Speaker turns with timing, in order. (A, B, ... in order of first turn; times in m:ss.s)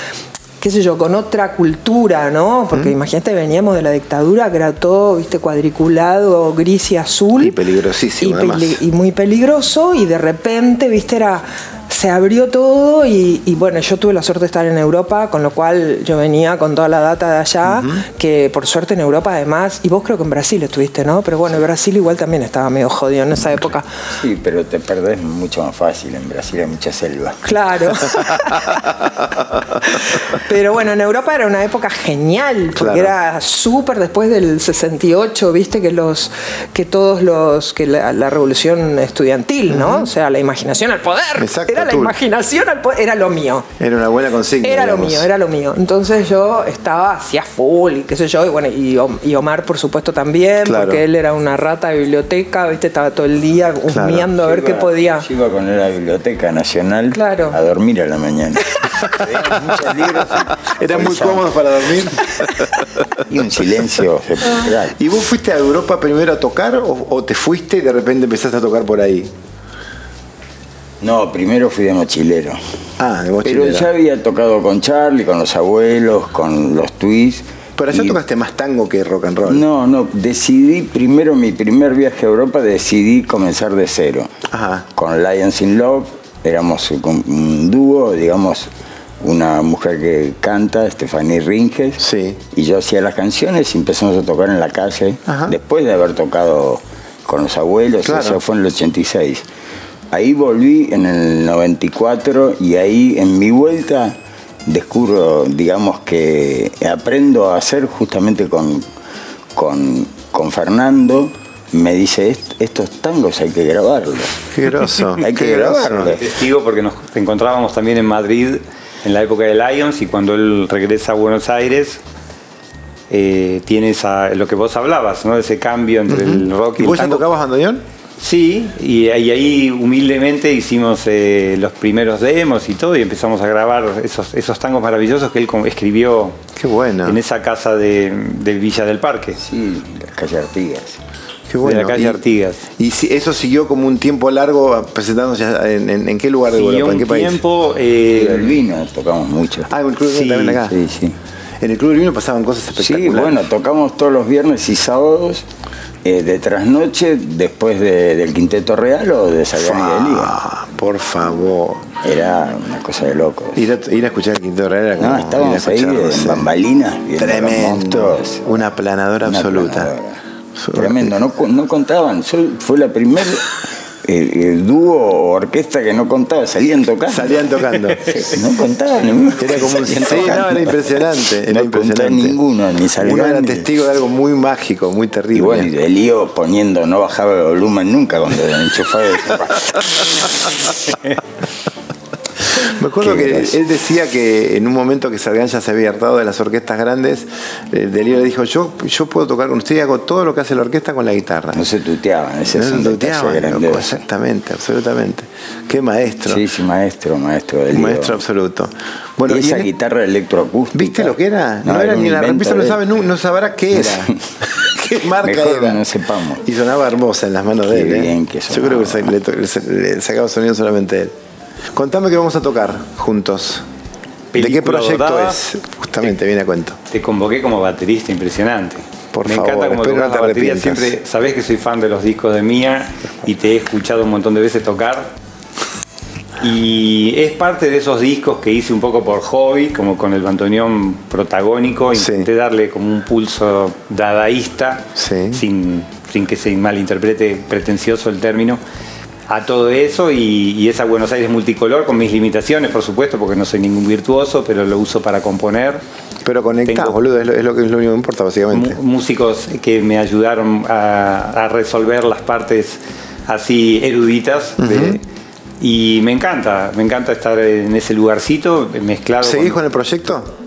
0:00.6-0:07.6 A
0:07.4-0:08.8 B
0:08.2-0:23.9 A
0:17.6-0:18.0 B
0:24.1-0:27.4 C
0:27.4-0:29.0 A
0:29.7-0:43.7 A
0:32.8-0:33.1 B
0:39.7-0:40.1 B
0:41.4-0:42.1 B
0:43.8-0:45.3 B
0:44.6-0:55.3 A
0:50.6-0:51.0 B
0:53.9-0:54.3 B
0:54.3-1:01.5 C
0:57.1-0:57.6 A
0:59.2-1:02.5 B
1:03.1-1:05.0 C
1:05.0-1:09.3 B
1:11.0-1:12.6 C
1:13.0-1:13.9 B
1:13.4-1:18.2 C
1:17.8-1:19.6 B
1:19.5-1:24.3 C
1:24.5-1:24.9 B
1:25.0-1:28.7 C
1:29.2-1:39.4 C
1:32.0-1:32.4 B
1:35.3-1:35.6 B
1:38.0-1:38.4 B
1:40.1-1:48.8 C
1:49.6-1:56.3 C
1:54.5-1:56.2 B
1:56.2-2:02.0 D
2:03.1-2:07.2 D
2:06.1-2:07.8 B
2:08.2-2:16.4 D
2:16.6-2:17.2 B
2:17.0-2:19.4 D
2:19.4-2:21.0 C
2:21.5-2:22.2 B
2:21.6-2:22.6 D
2:22.8-2:27.4 B
2:26.5-2:28.6 D
2:28.1-2:29.7 C
2:29.7-2:30.8 B
2:30.1-2:30.6 D
2:30.6-2:31.2 C
2:31.6-2:33.4 B
2:32.8-2:35.4 C
2:36.0-2:40.3 C
2:39.6-2:42.0 B
2:42.0-2:43.6 C
2:43.6-2:46.5 B
2:45.0-2:48.4 C
2:47.2-2:49.9 B
2:49.2-2:50.2 C
2:50.6-2:51.2 B
2:50.7-3:03.7 C
2:57.1-2:58.1 B
2:59.4-3:02.4 B
3:03.0-3:05.7 B
3:05.3-3:11.0 C
3:12.6-3:21.6 B
3:13.0-3:13.5 C
3:21.5-3:24.0 C
3:22.5-3:26.4 B
3:26.3-3:28.2 C
3:27.7-3:29.7 B
3:29.3-3:32.8 C
3:30.7-3:35.8 B
3:33.7-3:34.2 C
3:35.2-3:36.4 C
3:36.4-3:41.1 B
3:37.7-3:39.1 C
3:41.7-3:43.6 B
3:44.3-3:45.4 D
3:44.4-3:46.8 B
3:46.9-3:55.1 D
3:49.1-3:50.9 B
3:56.4-4:08.6 D
4:01.9-4:02.3 B
4:05.0-4:05.4 B
4:09.3-4:15.8 D
4:16.2-4:18.8 B
4:16.7-4:17.0 D
4:18.5-4:25.0 D
4:24.6-4:25.0 B
4:25.6-4:29.6 D
4:29.2-4:30.3 B